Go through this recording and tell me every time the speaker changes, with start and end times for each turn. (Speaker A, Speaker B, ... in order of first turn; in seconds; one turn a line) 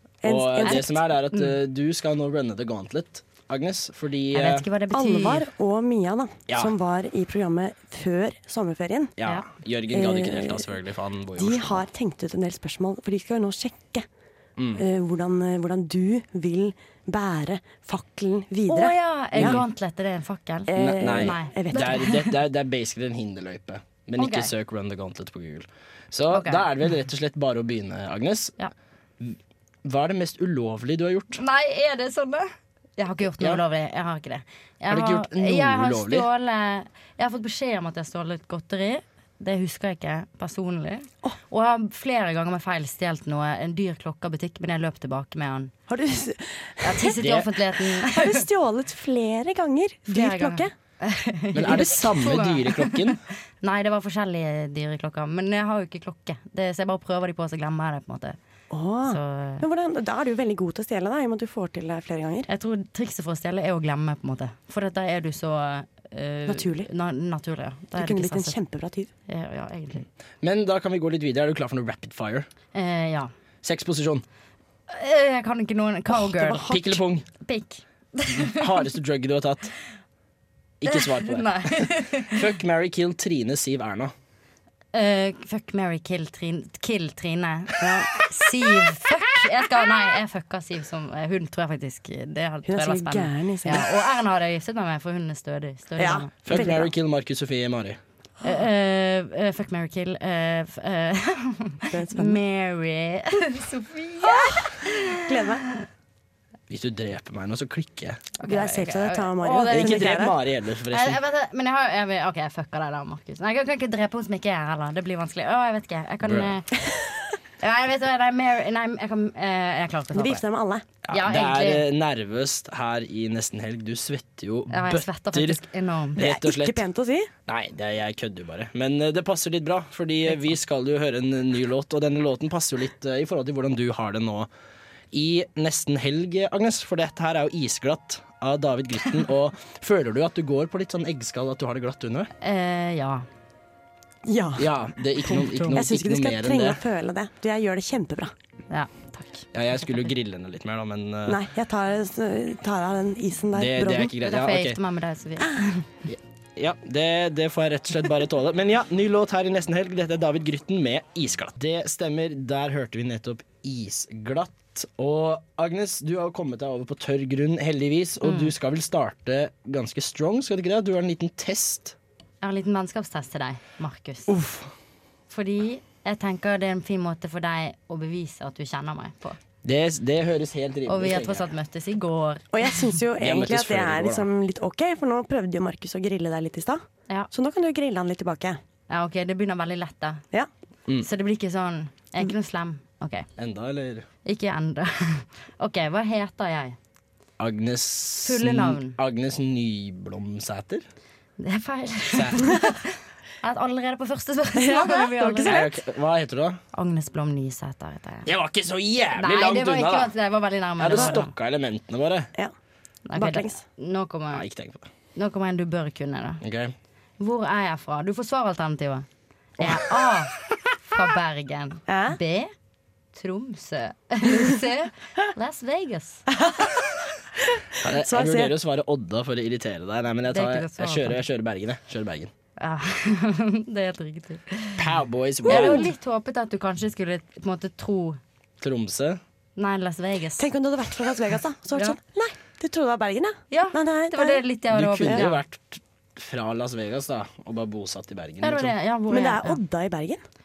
Speaker A: 0.2-0.9
Speaker B: 0.2-4.7
Speaker C: 0.6-1.6
Speaker C: 4.3-5.5
Speaker A: 4.9-9.2
Speaker B: 6.5-6.7
Speaker B: 9.2-11.8
Speaker A: 9.9-10.6
Speaker A: 11.4-14.1
Speaker B: 14.6-14.8
Speaker A: 14.8-19.6
Speaker C: 18.7-22.3
Speaker B: 19.4-19.6
Speaker A: 20.7-22.0
Speaker B: 20.7-28.6
Speaker C: 24.2-24.5
Speaker C: 26.3-26.7
Speaker B: 29.2-31.4
Speaker C: 31.4-45.7
Speaker B: 34.9-36.3
Speaker A: 45.9-47.2
Speaker C: 46.8-48.4
Speaker B: 47.2-47.5
Speaker A: 47.9-50.7
Speaker C: 50.1-58.4
Speaker B: 51.5-53.2
Speaker A: 58.7-62.5
Speaker C: 59.1-59.6
Speaker C: 62.5-68.6
Speaker A: 66.5-66.9
Speaker A: 68.0-69.1
Speaker C: 69.3-70.0
Speaker B: 70.4-72.5
Speaker C: 72.7-73.3
Speaker B: 73.6-74.2
Speaker C: 74.9-76.8
Speaker A: 76.3-76.8
Speaker B: 76.6-77.3
Speaker C: 77.4-78.7
Speaker B: 78.3-79.7
Speaker B: 80.8-84.1
Speaker C: 80.9-82.5
Speaker C: 84.9-96.6
Speaker A: 87.8-88.2
Speaker A: 92.7-93.9
Speaker A: 96.0-96.9
Speaker B: 96.4-98.0
Speaker C: 98.4-105.8
Speaker A: 101.9-102.4
Speaker A: 104.2-104.7
Speaker A: 105.3-105.6
Speaker B: 106.7-108.3
Speaker C: 108.4-110.3
Speaker A: 108.4-110.3
Speaker B: 109.7-111.2
Speaker C: 110.9-116.7
Speaker B: 116.2-116.5
Speaker C: 117.6-120.4
Speaker A: 120.1-120.9
Speaker B: 121.1-125.6
Speaker C: 121.1-121.9
Speaker C: 124.7-126.2
Speaker B: 126.2-126.8
Speaker A: 126.2-127.3
Speaker B: 127.5-134.5
Speaker C: 130.3-130.6
Speaker B: 135.1-142.3
Speaker C: 142.4-143.3
Speaker A: 144.3-144.7
Speaker B: 144.6-146.8
Speaker C: 145.2-145.8
Speaker A: 145.7-148.3
Speaker C: 148.7-150.1
Speaker B: 149.5-151.4
Speaker A: 151.3-154.1
Speaker B: 153.6-154.8
Speaker C: 154.2-155.8
Speaker B: 156.1-172.0
Speaker C: 168.2-168.5
Speaker C: 172.4-174.3
Speaker B: 174.3-174.7
Speaker C: 175.3-179.4
Speaker B: 179.6-181.5
Speaker C: 180.9-182.5
Speaker A: 182.5-188.6
Speaker B: 183.2-184.3
Speaker C: 188.9-190.2
Speaker C: 191.0-193.3
Speaker B: 193.4-194.1
Speaker C: 194.2-196.8
Speaker B: 197.4-200.8
Speaker C: 198.2-199.0
Speaker C: 201.4-205.7
Speaker B: 202.1-202.4
Speaker A: 204.6-205.7
Speaker B: 205.4-206.6
Speaker C: 206.7-208.3
Speaker B: 208.2-210.1
Speaker C: 209.2-211.3
Speaker B: 210.8-212.3
Speaker C: 213.1-214.4
Speaker A: 213.2-213.6
Speaker B: 214.3-214.9
Speaker C: 215.2-216.4
Speaker B: 216.4-216.7
Speaker C: 217.2-219.1
Speaker B: 219.6-219.9
Speaker C: 219.6-220.3
Speaker C: 220.9-222.5
Speaker A: 221.9-222.2
Speaker C: 223.1-226.2
Speaker A: 226.3-226.9
Speaker A: 227.6-228.5
Speaker B: 227.8-232.3
Speaker C: 230.3-231.2
Speaker C: 232.6-234.9
Speaker B: 234.8-235.9
Speaker C: 235.4-238.2
Speaker A: 235.5-235.9
Speaker B: 238.6-239.2
Speaker C: 239.6-240.5
Speaker A: 240.4-244.4
Speaker C: 243.5-245.4
Speaker B: 244.7-248.7
Speaker C: 248.4-249.6
Speaker A: 249.1-250.2